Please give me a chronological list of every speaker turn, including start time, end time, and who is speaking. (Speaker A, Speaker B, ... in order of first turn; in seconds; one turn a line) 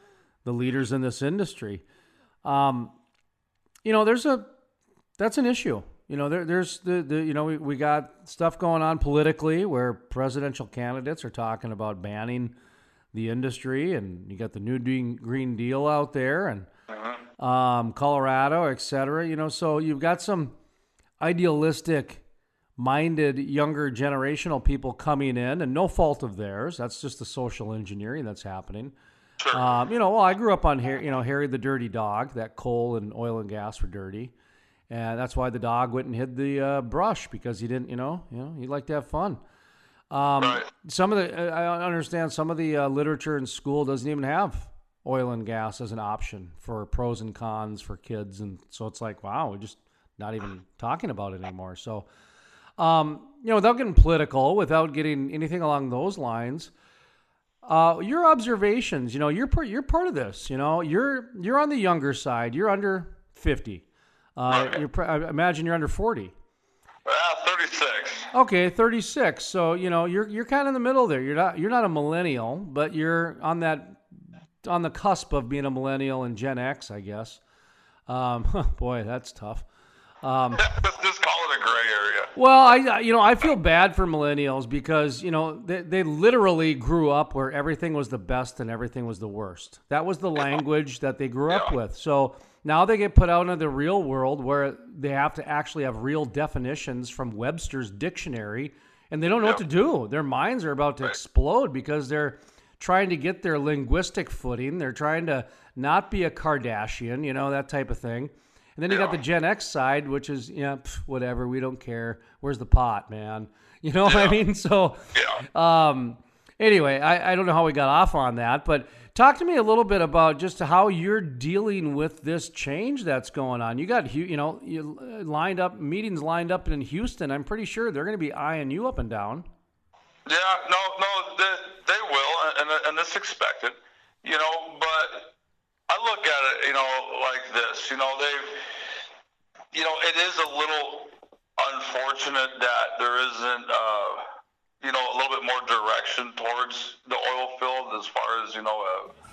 Speaker A: 0.4-1.8
Speaker A: 2.4-2.9
Speaker A: 3.8-4.5
Speaker A: 5.2-12.5
Speaker A: 13.1-16.7
Speaker A: 17.4-20.5
Speaker A: 21.2-22.2
Speaker A: 22.8-28.9
Speaker B: 29.4-29.7
Speaker A: 29.5-34.3
Speaker A: 34.9-39.4
Speaker A: 40.1-52.1
Speaker B: 40.4-40.7
Speaker A: 52.8-56.7
Speaker A: 57.6-63.8
Speaker A: 64.4-66.3
Speaker B: 64.5-64.8
Speaker B: 67.0-68.3
Speaker A: 68.3-74.0
Speaker A: 74.6-77.4
Speaker A: 78.1-79.6
Speaker A: 80.2-80.6
Speaker B: 80.6-82.3
Speaker A: 82.3-115.0
Speaker B: 108.9-109.2
Speaker B: 114.0-114.4
Speaker B: 115.1-115.4
Speaker A: 115.5-129.5
Speaker B: 130.2-135.3
Speaker B: 135.9-138.6
Speaker B: 139.7-144.2
Speaker B: 144.8-149.1